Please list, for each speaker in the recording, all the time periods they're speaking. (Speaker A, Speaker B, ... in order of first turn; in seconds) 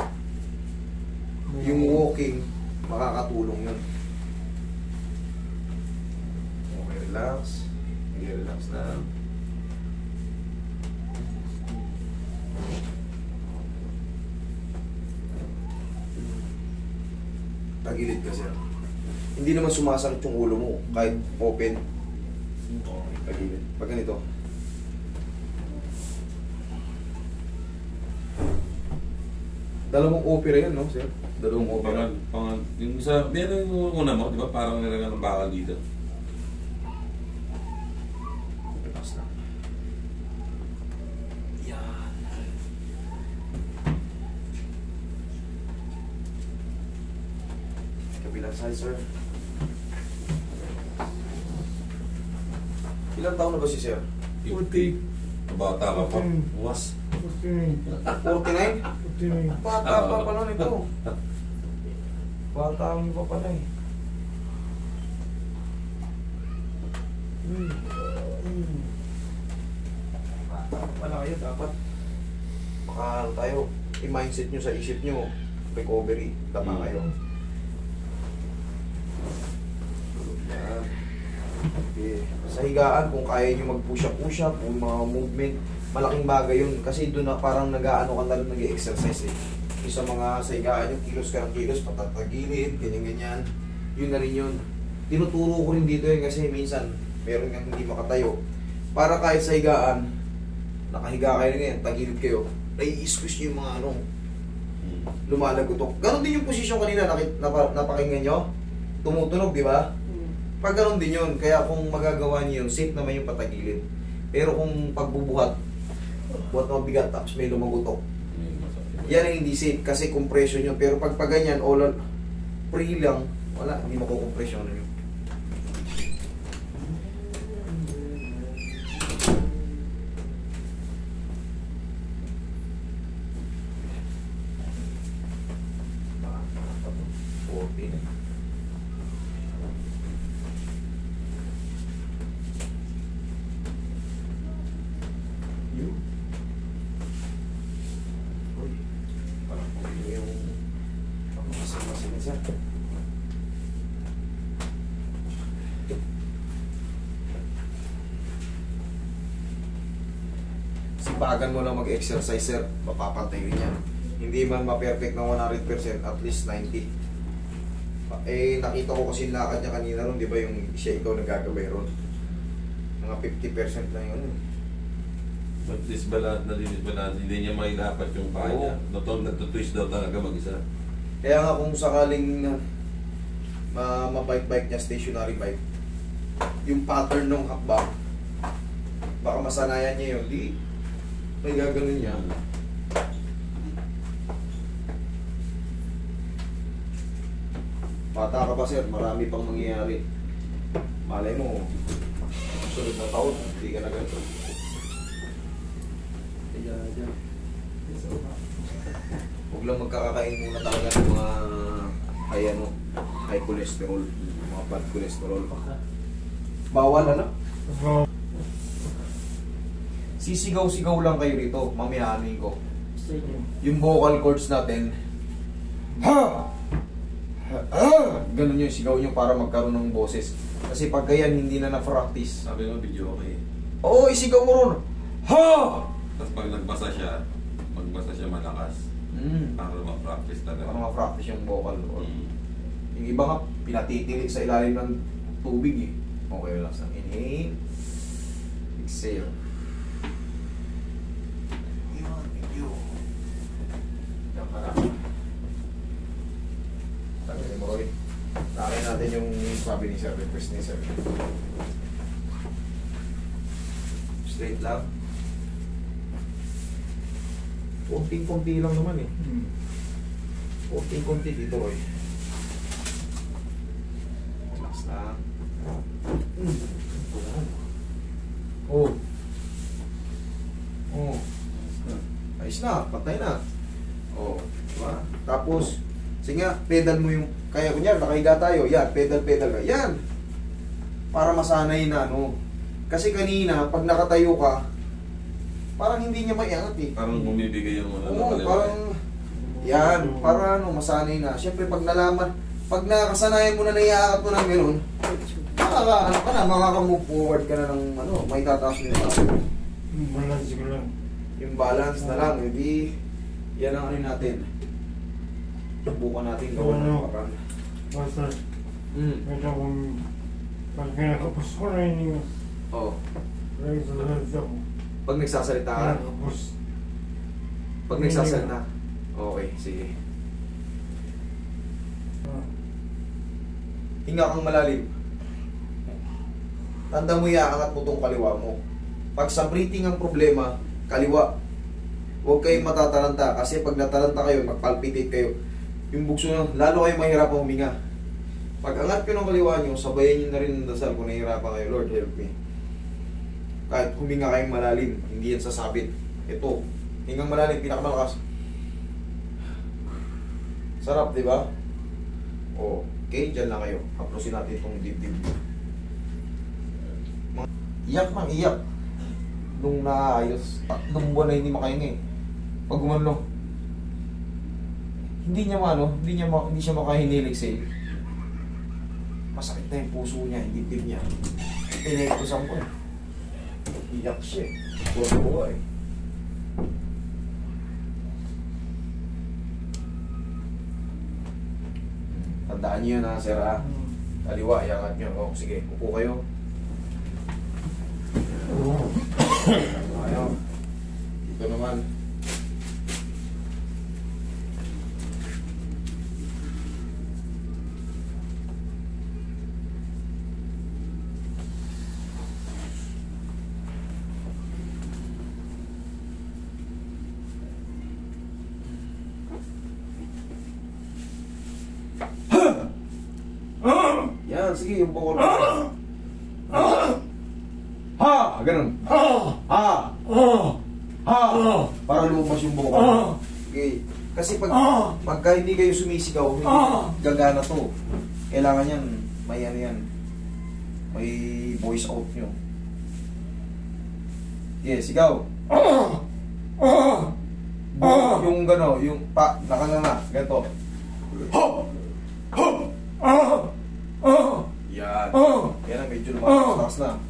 Speaker A: 1.5-2.0, 54.5-55.0, 56.0-56.5, 57.2-58.0, 59.0-59.6, 217.7-218.1, 223.2-223.4, 269.2-269.5, 299.4-300.5, 309.9-310.9, 316.6-317.1, 317.9-318.4, 319.2-320.1, 320.7-322.3, 323.6-324.6, 325.8-326.5, 327.9-328.5, 445.6-446.0, 446.6-447.1, 452.4-453.5, 454.0-454.5
Speaker B: 1.6-3.8, 6.7-9.1, 17.8-18.6, 19.4-21.8, 22.8-24.2, 29.9-32.1, 38.8-39.3, 41.6-42.4, 48.1-49.0, 53.1-54.0, 58.2-58.9, 59.5-60.9, 62.5-63.6, 67.4-68.9, 70.5-71.7, 72.9-77.1, 80.1-80.9, 81.9-93.5, 94.0-98.3, 99.0-100.1, 100.9-104.0, 105.3-108.4, 109.0-109.9, 110.6-115.5, 116.4-118.0, 119.1-122.0, 122.7-124.9, 127.3-128.2, 136.2-138.1, 145.7-146.0, 148.5-148.8, 149.5-150.6, 151.3-152.4, 161.0-166.8, 168.1-171.9, 173.0-174.4, 178.4-178.8, 181.2-182.6, 183.7-185.6, 186.7-187.9, 189.2-190.5, 191.4-192.2, 198.1-200.0, 201.1-201.6, 202.7-204.2, 206.5-207.1, 209.5-212.7, 213.3-215.7, 216.7-217.3, 220.2-222.6, 223.6-224.9, 226.0-226.5, 227.5-232.4, 233.8-235.9, 239.1-239.6, 240.6-242.1, 242.9-247.6, 248.8-249.4, 251.9-253.0, 254.3-255.0, 257.2-257.9, 258.5-261.0, 264.2-264.9, 267.9-269.1, 270.7-272.0, 274.5-275.2, 276.4-277.5, 278.7-279.0, 280.9-281.2, 281.9-283.4, 284.1-290.0, 291.1-292.3, 292.9-294.6, 295.8-296.9, 298.0-299.0, 299.6-304.8, 305.4-309.4, 311.4-312.9, 313.6-314.5, 315.9-317.4, 318.9-319.3, 322.7-323.0, 325.1-326.0, 327.9-328.6, 329.2-329.9, 334.1-334.9, 336.9-338.6, 339.2-341.3, 342.2-345.3, 345.9-347.7, 348.6-352.3, 353.7-358.2, 360.8-361.5, 362.6-365.4, 367.3-368.6, 369.5-372.0, 372.7-373.2, 375.2-377.7, 379.3-381.0, 381.8-382.7, 383.9-385.6, 392.1-393.6, 394.3-396.2, 399.4-400.4, 401.2-401.8, 424.1-425.7, 426.5-427.0, 428.0-430.3, 431.1-437.7, 438.3-439.9, 440.9-442.3, 444.6-445.3, 447.7-450.5, 454.7-457.0
Speaker C: 31.5-35.8, 54.4-55.0, 55.5-56.9, 57.9-58.3, 59.8-60.7, 76.6-77.0, 104.8-105.1, 118.3-119.3, 175.6-180.6, 192.0-192.3, 232.4-233.4, 236.2-238.8, 239.6-240.8, 242.0-242.3, 297.0-298.8